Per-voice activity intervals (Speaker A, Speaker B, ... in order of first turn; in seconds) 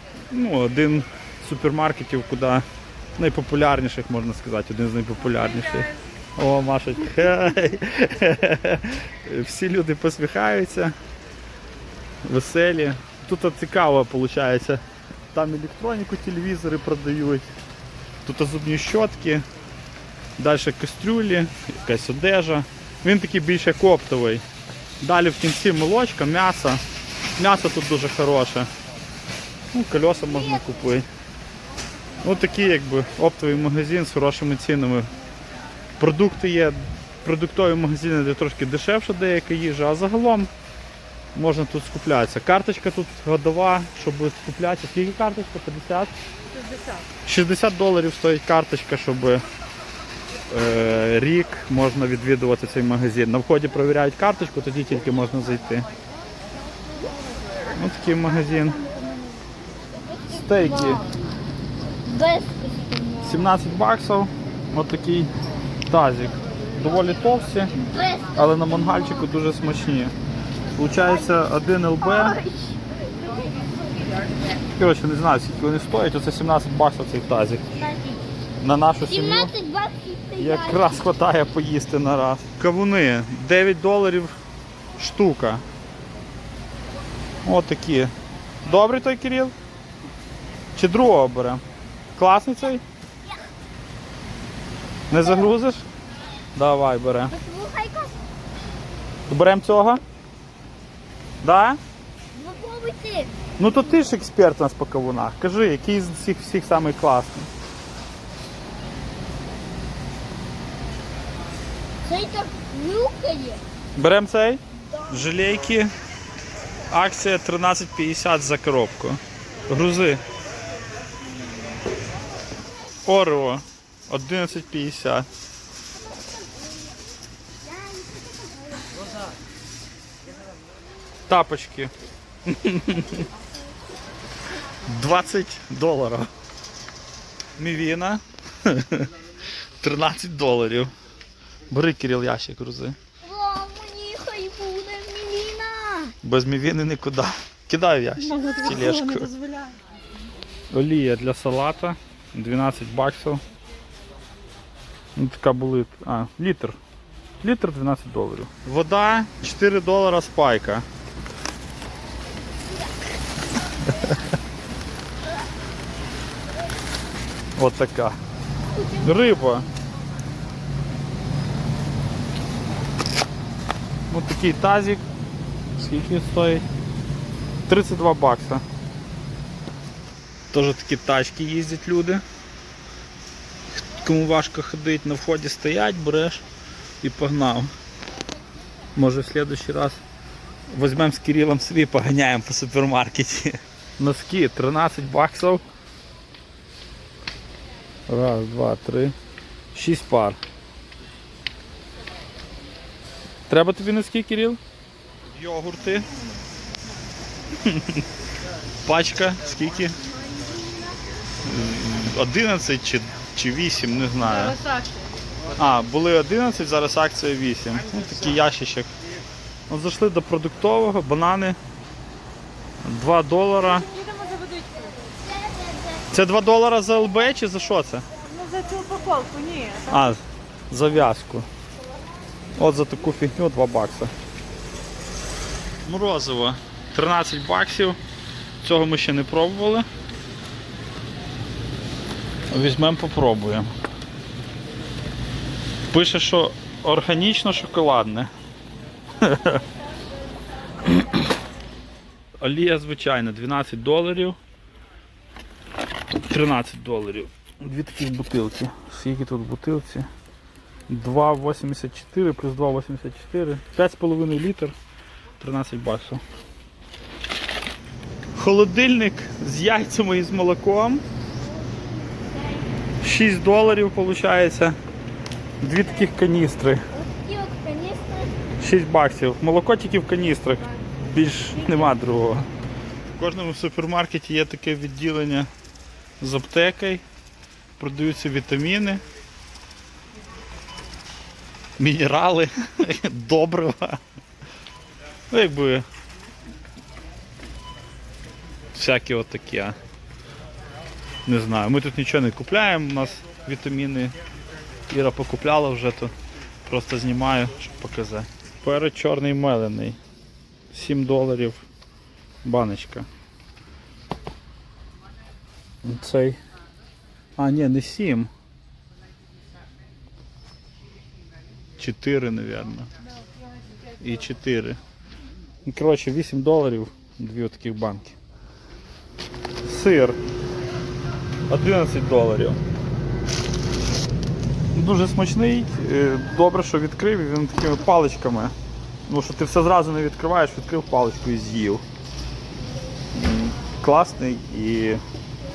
Speaker A: 0.3-2.6, 3.2-10.9, 12.2-14.8, 15.3-17.5, 18.2-19.4, 20.4-24.4, 25.0-26.8, 27.4-28.7, 29.7-31.1, 32.2-35.1, 36.0-40.5, 41.3-46.1, 47.2-49.4, 50.5-55.9, 57.7-58.8, 60.3-61.0, 63.2-65.3, 65.9-67.7, 68.3-70.1, 70.8-72.4, 74.8-77.6, 78.6-79.5, 80.4-84.3, 85.0-85.6, 87.4-88.1, 88.6-89.5, 90.7-91.6, 92.2-92.8, 95.1-95.8, 96.5-97.3, 99.3-100.0, 101.4-101.8, 103.6-107.5, 114.0-115.9, 116.9-120.2, 123.0-125.3, 131.3-131.9, 132.4-133.2, 134.8-136.3, 137.6-139.1, 139.8-140.9, 141.7-143.0, 146.2-149.3, 150.7-153.4, 155.2-156.8, 157.4-160.8, 167.6-168.2, 169.0-169.7, 174.1-175.0, 175.8-176.6, 177.7-178.6, 180.5-182.2, 183.8-186.4, 187.0-187.7, 188.9-190.0, 190.7-195.6, 198.1-199.1, 199.7-200.4, 203.5-204.6, 205.3-206.1, 207.6-208.0, 208.8-209.9, 211.4-214.6, 215.6-218.9, 219.7-221.6, 222.8-223.9, 226.1-228.1, 229.9-231.5, 232.6-234.1, 235.8-238.0, 238.6-239.8, 242.5-243.7, 245.9-248.3, 249.2-249.6, 252.4-254.4, 256.2-260.1, 260.9-264.8, 265.4-266.2, 268.4-271.0, 273.0-274.8, 275.6-276.8, 278.6-282.5, 283.1-285.5, 286.2-287.0, 287.8-289.0, 291.8-294.0, 295.3-295.9, 298.7-299.8, 301.2-304.1, 304.9-306.1, 306.6-310.0, 310.7-311.6, 312.4-313.1, 315.8-316.4, 317.4-318.3, 321.8-322.9, 324.0-324.8, 325.6-328.1, 329.6-330.2, 331.5-332.6, 334.7-338.5, 339.1-341.8, 343.1-345.0
Speaker B: 58.5-61.1, 62.0-63.5, 67.7-69.2, 72.0-73.3, 77.8-78.2, 79.0-81.0, 97.3-98.2, 102.3-103.3, 112.0-113.6, 127.6-128.9, 143.2-146.1, 148.4-149.5, 168.7-169.6, 210.4-210.9, 224.9-226.0, 271.6-272.7, 276.9-278.4
Speaker C: 149.3-149.7, 214.6-214.9, 223.9-224.9, 228.3-229.9